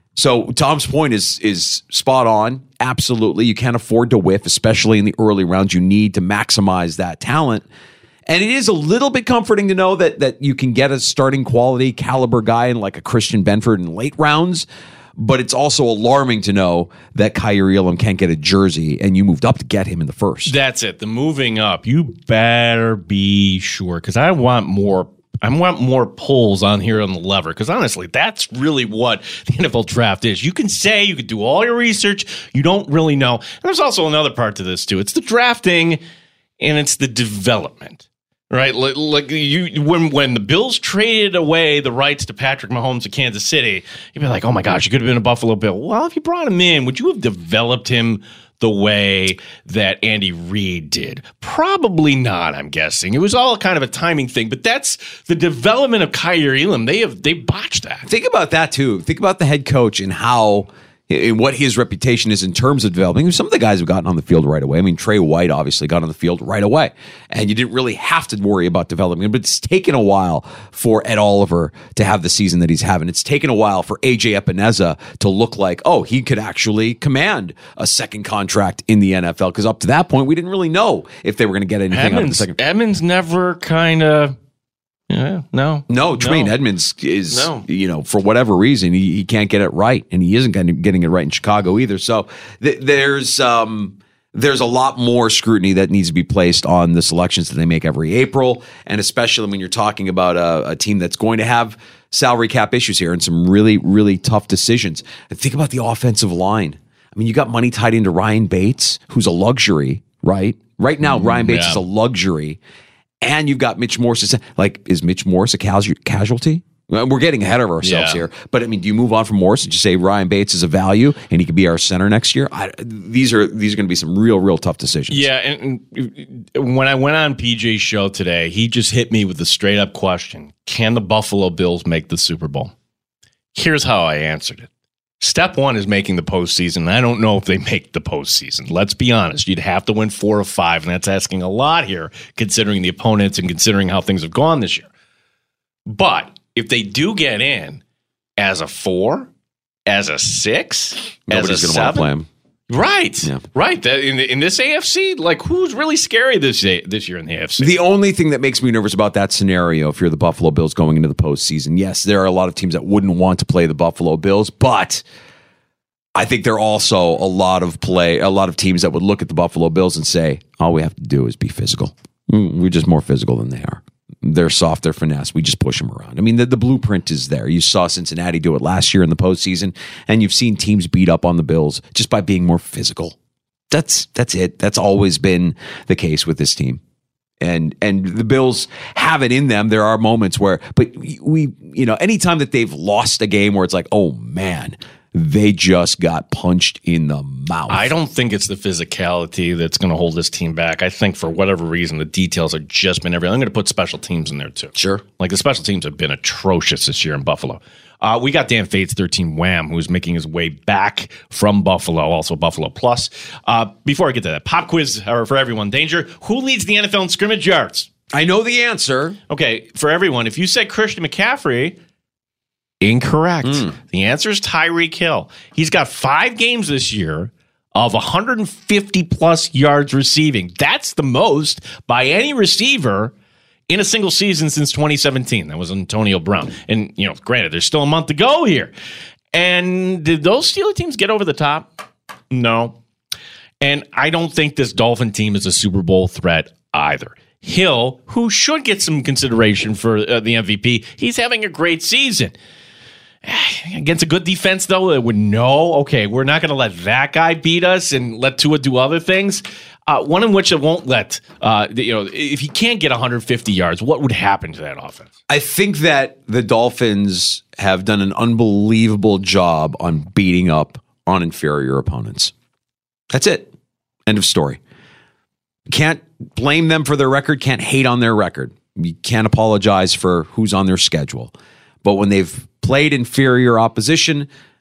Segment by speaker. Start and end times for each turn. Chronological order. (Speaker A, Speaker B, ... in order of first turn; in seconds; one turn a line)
Speaker A: 0.1-7.7
Speaker A: 8.3-20.5
Speaker B: 20.4-36.0
Speaker B: 36.6-58.1
Speaker A: 58.0-82.5
Speaker B: 81.9-84.3
Speaker B: 85.1-86.5
Speaker A: 85.9-112.6
Speaker B: 87.3-87.6
Speaker B: 111.0-111.8
Speaker A: 113.2-125.3
Speaker B: 117.8-118.2
Speaker B: 125.1-132.7
Speaker B: 133.5-134.7
Speaker B: 135.2-144.9
Speaker B: 145.8-147.8
Speaker B: 148.4-149.3
Speaker B: 149.9-152.1
Speaker A: 151.3-152.3
Speaker B: 152.7-157.8
Speaker A: 157.6-165.0
Speaker A: 166.1-183.1
Speaker A: 183.7-186.8
Speaker A: 187.4-197.9
Speaker B: 197.7-217.9
Speaker A: 204.8-205.0
Speaker A: 218.1-219.2
Speaker B: 219.3-221.8
Speaker B: 222.8-233.1
Speaker A: 223.4-223.7
Speaker B: 233.7-238.7
Speaker B: 239.3-241.7
Speaker B: 242.3-242.8
Speaker B: 243.6-252.3
Speaker B: 253.2-265.1
Speaker A: 265.3-272.3
Speaker A: 273.1-273.5
Speaker A: 274.1-274.6
Speaker A: 275.7-281.3
Speaker A: 281.8-284.3